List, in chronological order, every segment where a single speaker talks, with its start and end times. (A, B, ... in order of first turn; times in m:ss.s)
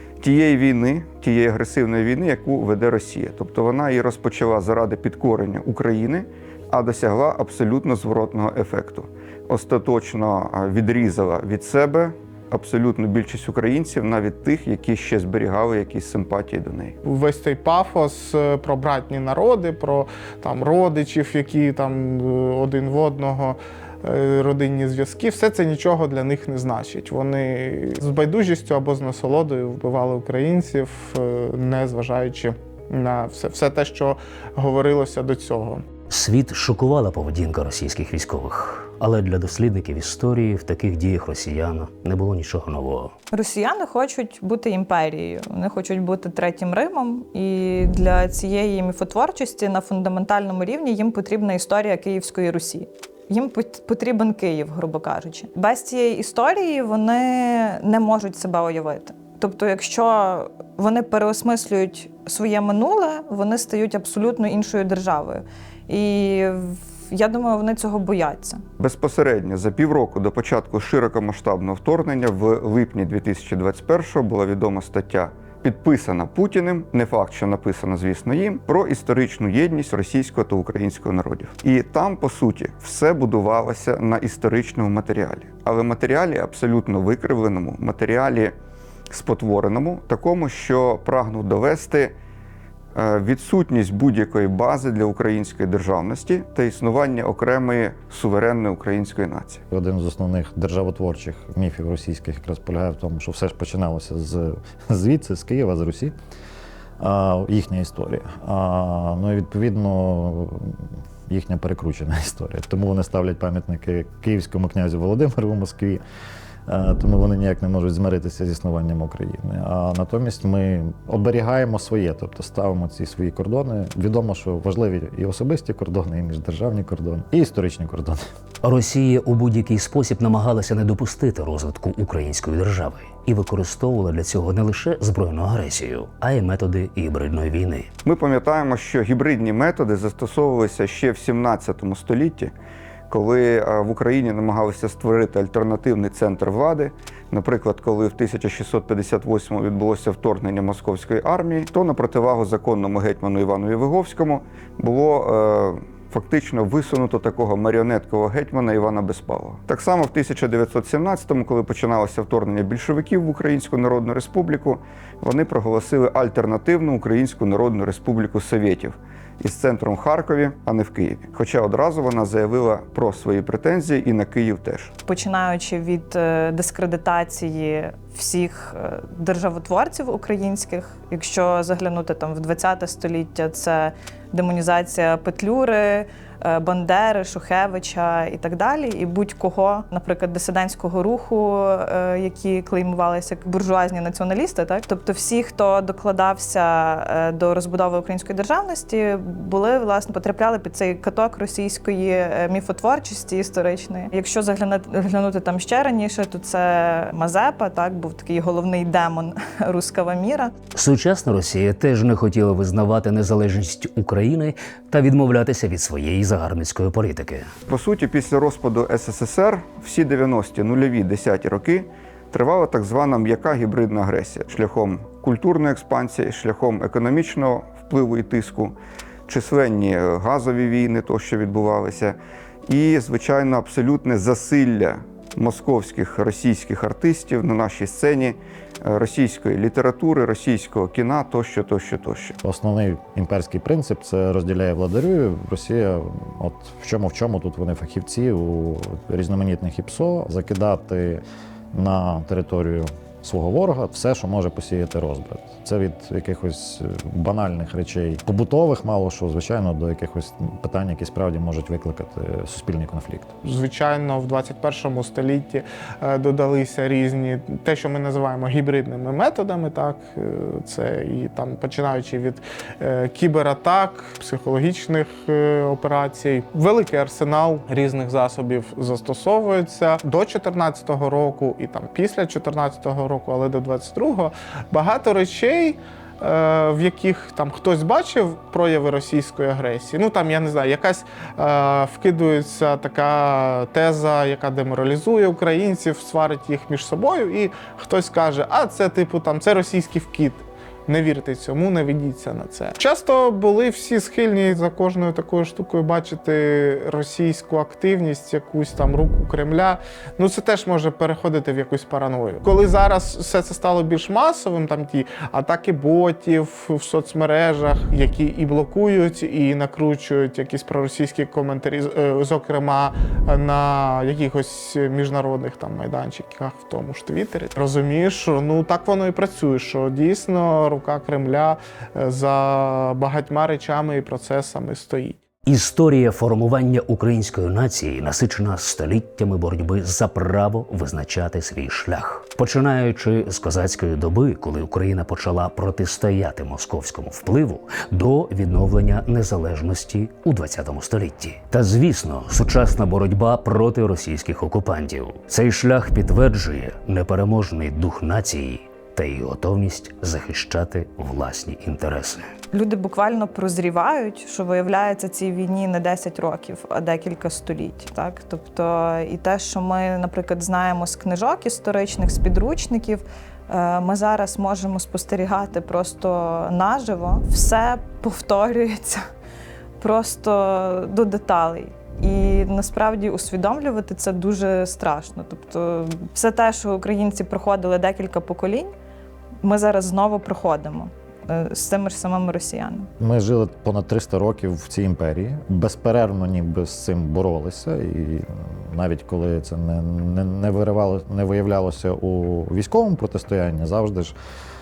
0:00.2-0:17.0 A
0:17.0-0:35.8 B
0:36.1-0:43.2 C
0:43.3-1:08.6 D
1:08.8-1:28.5 A
1:29.1-1:32.1 A
1:33.0-1:39.6 A
1:39.7-1:46.1 E
1:47.0-1:56.0 E
1:56.7-2:08.2 E
2:08.6-2:17.9 C
2:18.0-2:22.5 A
2:23.1-2:54.9 A
2:55.1-3:30.5 D
3:30.7-3:37.5 C
3:37.7-3:48.8 A
3:49.3-4:02.4 A
4:02.4-4:23.3 E
4:23.4-5:35.2 B
5:35.5-6:02.2 C
6:02.5-6:19.0 D
6:19.8-6:28.7 D
6:29.4-6:32.9 D
6:33.0-6:44.2 E